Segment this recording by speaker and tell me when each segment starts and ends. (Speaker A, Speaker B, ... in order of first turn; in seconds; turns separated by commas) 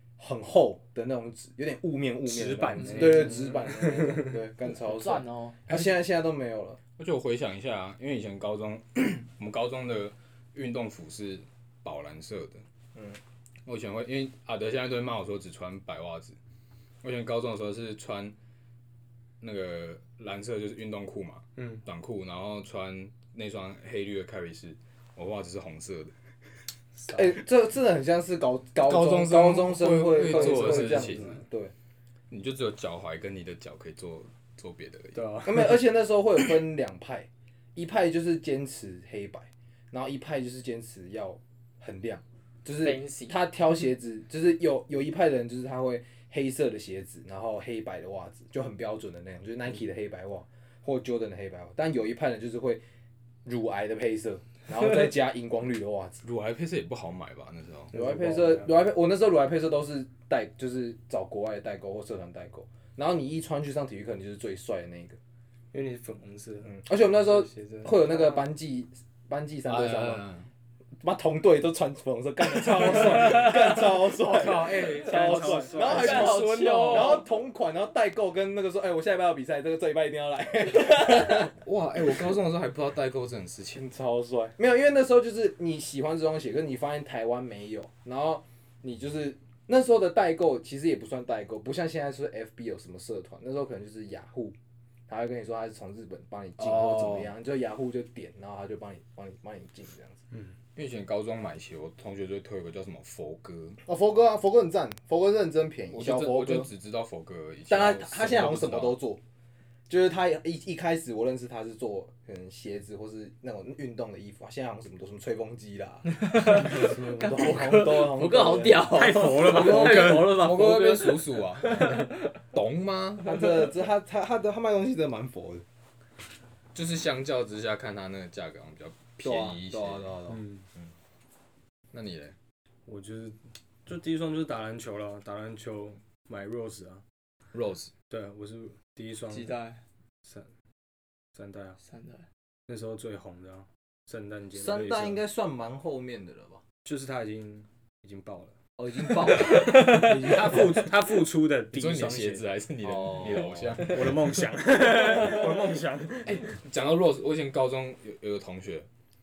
Speaker A: 0.2-6.8, Speaker B: 2.2-4.4, Speaker C: 2.8-3.2, Speaker C: 4.6-5.6, Speaker D: 7.0-12.6, Speaker D: 13.6-16.4, Speaker D: 17.0-18.4, Speaker D: 19.4-26.1, Speaker B: 21.6-21.8, Speaker B: 27.0-27.4, Speaker A: 27.1-31.7, Speaker D: 28.8-31.4, Speaker B: 30.3-31.4, Speaker D: 32.3-35.3, Speaker B: 35.1-35.8, Speaker A: 35.4-52.8, Speaker C: 42.8-43.4, Speaker A: 53.4-56.2, Speaker D: 56.2-57.9, Speaker B: 57.9-58.8, Speaker A: 57.9-65.2, Speaker B: 65.7-68.5, Speaker A: 66.6-70.2, Speaker D: 69.7-70.5, Speaker A: 71.0-81.5, Speaker D: 73.1-73.5, Speaker D: 74.1-77.1, Speaker B: 75.0-76.3, Speaker C: 75.8-77.2, Speaker D: 81.3-83.8, Speaker A: 83.7-94.5, Speaker A: 95.1-100.2, Speaker D: 96.6-97.3, Speaker D: 100.7-103.8, Speaker A: 103.8-106.7, Speaker D: 105.9-109.0, Speaker A: 107.7-109.2, Speaker A: 109.9-119.1, Speaker C: 116.1-122.3, Speaker B: 118.9-120.4, Speaker D: 119.4-123.3, Speaker A: 123.2-125.6, Speaker D: 126.7-130.1, Speaker A: 129.2-130.9, Speaker B: 130.3-130.7, Speaker D: 131.9-132.3, Speaker B: 132.8-137.0, Speaker D: 137.5-137.9, Speaker B: 138.1-139.5, Speaker C: 139.3-139.8, Speaker B: 141.3-141.8, Speaker C: 141.8-142.2, Speaker B: 142.7-145.2, Speaker A: 144.5-146.6, Speaker B: 146.8-148.5, Speaker A: 148.8-150.9, Speaker C: 149.5-150.0, Speaker B: 149.5-152.5, Speaker D: 151.7-154.3, Speaker A: 152.8-153.8, Speaker B: 153.8-156.5, Speaker D: 156.2-158.9